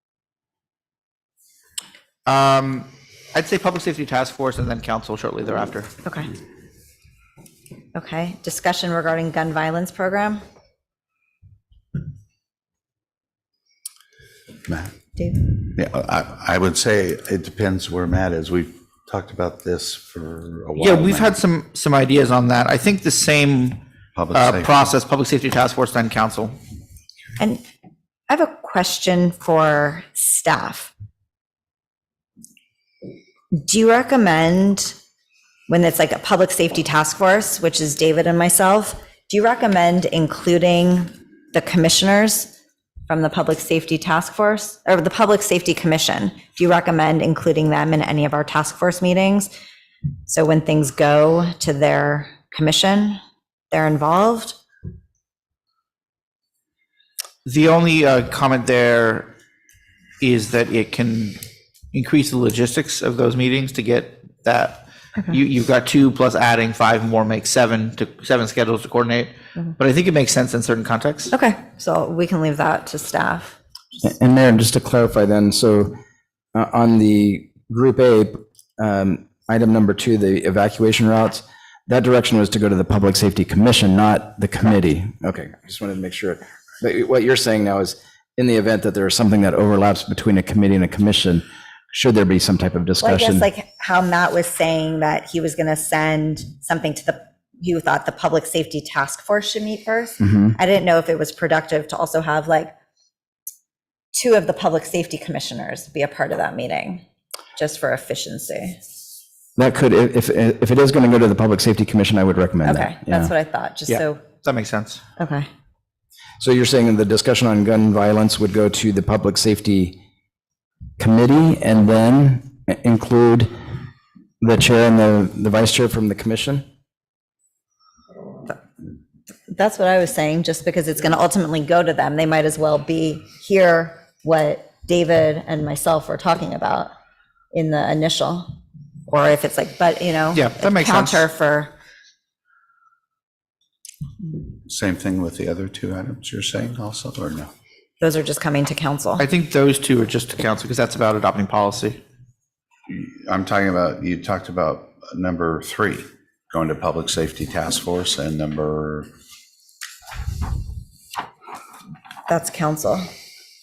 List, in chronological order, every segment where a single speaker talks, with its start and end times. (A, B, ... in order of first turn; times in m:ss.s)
0:02.2-0:05.9 A
0:06.0-0:06.3 B
0:07.9-0:10.4 B
0:14.7-0:14.9 C
0:15.2-0:15.4 B
0:15.7-0:21.4 C
0:20.8-0:23.8 A
0:24.1-0:24.9 C
0:24.3-0:26.6 A
0:28.3-0:30.9 B
0:33.5-0:35.0 B
0:35.7-0:42.5 B
0:43.1-0:49.5 B
0:50.3-0:53.2 B
0:53.7-0:54.6 B
0:57.4-0:59.3 A
1:00.2-1:01.4 A
1:01.9-1:11.3 A
1:11.3-1:13.6 B
1:14.0-1:15.9 D
1:16.5-1:33.5 D
1:33.0-1:42.7 B
1:40.2-1:40.6 D
1:44.1-1:47.0 B
1:47.6-1:48.8 B
1:49.6-1:53.3 D
1:52.6-1:54.2 B
1:53.9-1:55.0 A
1:55.2-1:55.5 B
1:56.4-1:59.9 D
2:01.0-2:03.5 D
2:04.4-2:06.6 D
2:09.5-2:16.9 B
2:17.5-2:18.4 B
2:19.1-2:21.7 B
2:20.3-2:21.3 A
2:24.6-2:27.5 C
2:28.0-2:29.2 B
2:29.2-2:32.0 A
2:32.9-2:39.1 C
2:42.3-2:43.1 B